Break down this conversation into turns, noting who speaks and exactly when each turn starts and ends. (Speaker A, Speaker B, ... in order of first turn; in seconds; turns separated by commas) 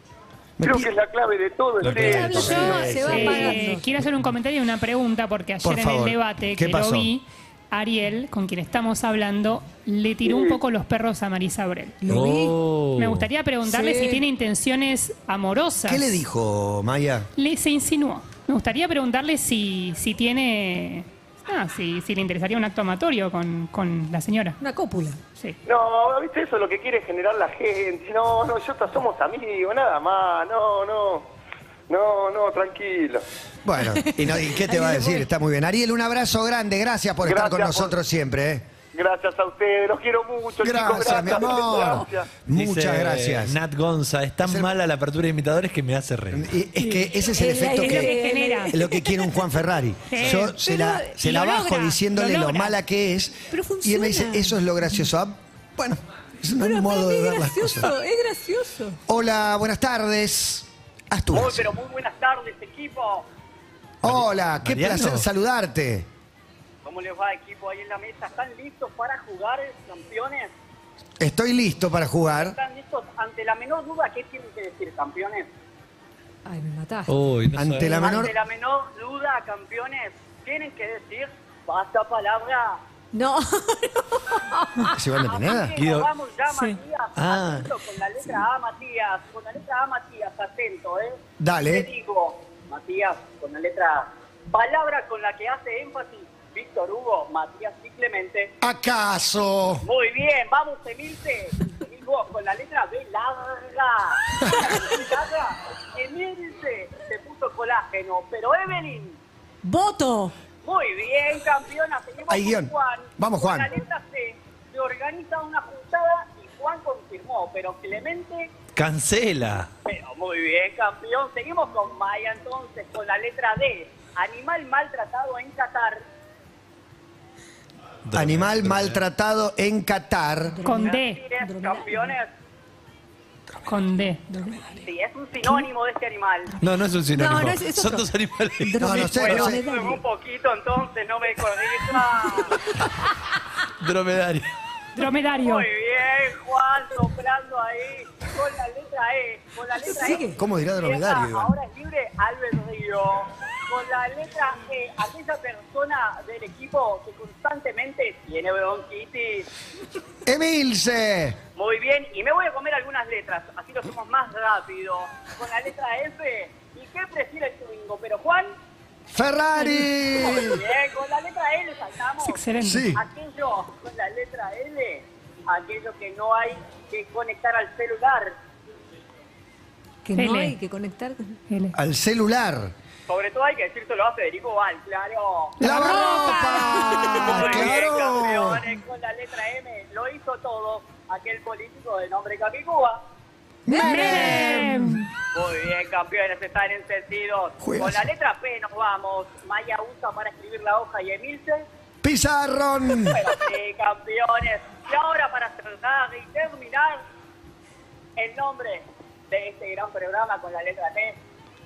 Speaker A: 0.6-0.9, Speaker B: 0.6-2.5, Speaker C: 1.8-3.0, Speaker D: 1.9-3.9, Speaker A: 2.0-3.5, Speaker E: 2.4-12.0, Speaker A: 5.6-7.1, Speaker B: 10.2-10.6, Speaker D: 12.0-12.6, Speaker C: 12.1-13.3, Speaker E: 13.0-16.2, Speaker D: 13.6-14.2, Speaker A: 15.8-17.3, Speaker E: 17.4-24.6, Speaker D: 24.6-25.2, Speaker B: 25.6-31.3, Speaker B: 31.9-33.2, Speaker A: 33.6-38.7, Speaker D: 34.0-35.3, Speaker B: 37.2-37.9, Speaker B: 38.9-42.3, Speaker A: 40.6-43.6, Speaker C: 42.5-46.5, Speaker A: 44.4-44.7, Speaker A: 46.3-48.1, Speaker D: 46.8-49.3, Speaker E: 47.8-48.8, Speaker A: 48.7-57.9, Speaker E: 50.1-50.5, Speaker D: 50.5-51.1, Speaker E: 51.1-52.8, Speaker D: 53.5-54.6, Speaker D: 56.6-59.0, Speaker A: 59.1-61.7, Speaker F: 61.3-63.2, Speaker A: 64.0-66.1, Speaker C: 64.0-65.2, Speaker F: 66.8-70.5, Speaker A: 71.2-72.6, Speaker F: 72.3-75.5, Speaker D: 76.5-77.1, Speaker C: 77.1-78.0, Speaker A: 77.5-78.3, Speaker F: 77.9-82.8, Speaker D: 83.1-85.0, Speaker A: 84.9-85.8, Speaker F: 85.2-98.5, Speaker C: 85.8-86.1, Speaker C: 87.2-87.7, Speaker A: 91.4-91.9, Speaker A: 98.6-99.8, Speaker F: 99.8-109.2, Speaker D: 109.6-110.3, Speaker F: 110.6-118.5, Speaker A: 112.3-113.7, Speaker C: 118.7-119.7, Speaker F: 119.8-126.0, Speaker C: 128.1-129.0, Speaker A: 128.1-130.6, Speaker D: 130.5-132.1, Speaker E: 130.6-131.2, Speaker F: 130.8-132.3, Speaker E: 133.7-134.2, Speaker D: 134.3-134.8, Speaker F: 134.8-136.5, Speaker C: 136.6-139.1, Speaker D: 137.1-140.0, Speaker A: 138.8-139.6, Speaker F: 139.1-142.6, Speaker C: 143.8-144.5, Speaker E: 144.9-145.7, Speaker F: 145.3-159.5, Speaker D: 149.9-150.4, Speaker A: 150.3-151.5, Speaker A: 160.2-161.4, Speaker F: 161.6-168.5, Speaker A: 169.1-170.6, Speaker F: 170.1-178.3, Speaker E: 172.2-172.9, Speaker A: 172.6-173.0, Speaker D: 180.0-181.4, Speaker E: 180.2-180.5, Speaker E: 181.5-181.8, Speaker A: 181.7-182.7, Speaker F: 183.1-185.6, Speaker A: 185.6-188.7, Speaker E: 185.6-187.5, Speaker D: 185.7-187.2, Speaker F: 187.2-193.0, Speaker A: 193.7-194.9, Speaker D: 193.7-194.7, Speaker E: 193.7-195.1, Speaker F: 195.3-201.7, Speaker A: 197.6-198.1, Speaker A: 202.0-203.2, Speaker F: 203.0-207.0, Speaker F: 208.2-211.2